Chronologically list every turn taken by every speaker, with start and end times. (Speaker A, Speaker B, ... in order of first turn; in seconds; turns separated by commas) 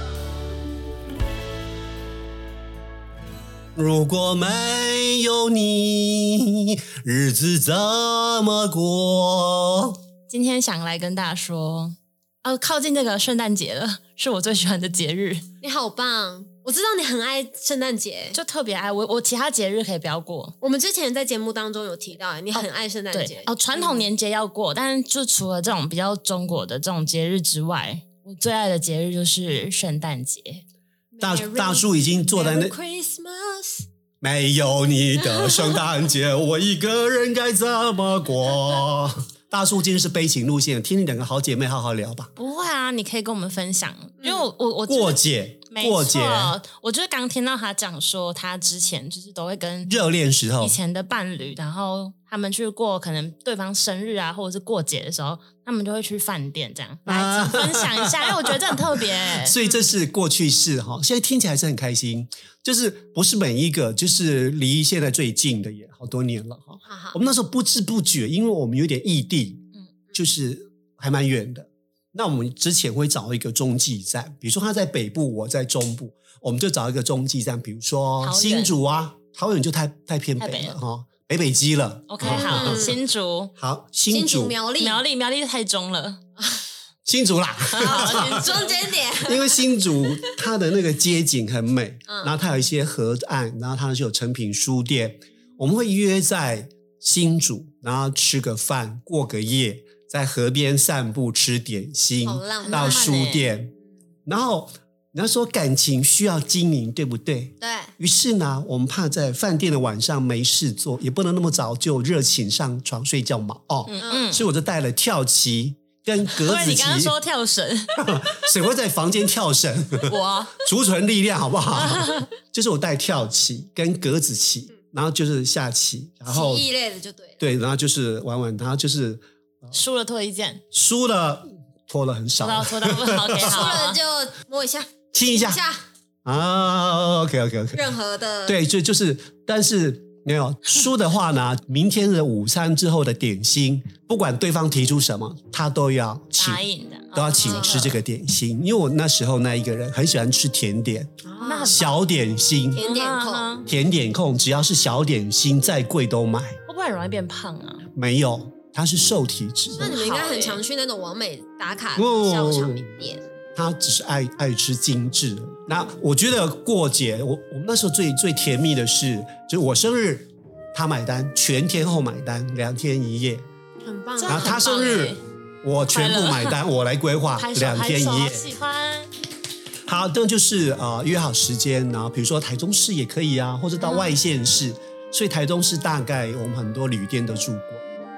Speaker A: 3.7-10.0, Speaker B: 10.3-15.4, Speaker C: 15.6-18.4, Speaker B: 18.3-20.5, Speaker C: 20.6-24.1, Speaker B: 22.5-30.6, Speaker C: 31.1-33.9, Speaker A: 31.2-32.7, Speaker A: 34.2-42.3, Speaker C: 35.2-35.8, Speaker B: 42.4-49.9, Speaker A: 44.9-46.6, Speaker A: 49.9-50.8, Speaker B: 50.6-59.6, Speaker A: 57.0-58.5, Speaker A: 59.3-83.0, Speaker C: 59.6-59.9, Speaker C: 66.8-67.2, Speaker B: 78.2-78.7, Speaker B: 80.4-80.8, Speaker B: 82.1-83.5, Speaker C: 82.2-83.0, Speaker A: 83.6-84.5, Speaker C: 84.1-85.0, Speaker B: 84.8-86.2, Speaker A: 87.0-88.6, Speaker B: 87.7-88.8, Speaker C: 87.8-90.4, Speaker A: 89.2-103.7, Speaker C: 92.1-92.4, Speaker C: 102.2-103.1, Speaker B: 102.6-103.5, Speaker A: 104.2-117.1, Speaker C: 107.6-107.9, Speaker B: 113.9-114.4, Speaker C: 114.0-114.3, Speaker B: 116.3-118.1, Speaker A: 118.0-126.7, Speaker B: 120.0-120.5, Speaker B: 121.7-122.3, Speaker C: 126.3-127.4, Speaker A: 127.4-129.7, Speaker B: 129.7-130.6, Speaker A: 130.7-133.8, Speaker B: 132.4-134.0, Speaker C: 133.4-135.8, Speaker A: 135.1-135.6, Speaker A: 136.2-137.9, Speaker C: 137.7-138.6, Speaker A: 138.5-152.8, Speaker B: 146.3-147.9, Speaker C: 147.4-148.0, Speaker C: 151.2-151.8, Speaker B: 151.4-151.9, Speaker C: 152.7-153.5, Speaker B: 152.8-153.7, Speaker A: 153.7-156.6, Speaker B: 156.7-157.8, Speaker A: 157.9-159.9, Speaker B: 159.8-160.6, Speaker C: 159.8-163.2, Speaker A: 161.9-163.0, Speaker A: 163.5-173.4, Speaker C: 173.8-174.7, Speaker B: 174.2-175.2, Speaker A: 174.2-178.4, Speaker B: 175.9-176.6, Speaker B: 177.3-179.1, Speaker A: 179.9-187.9, Speaker C: 183.8-184.1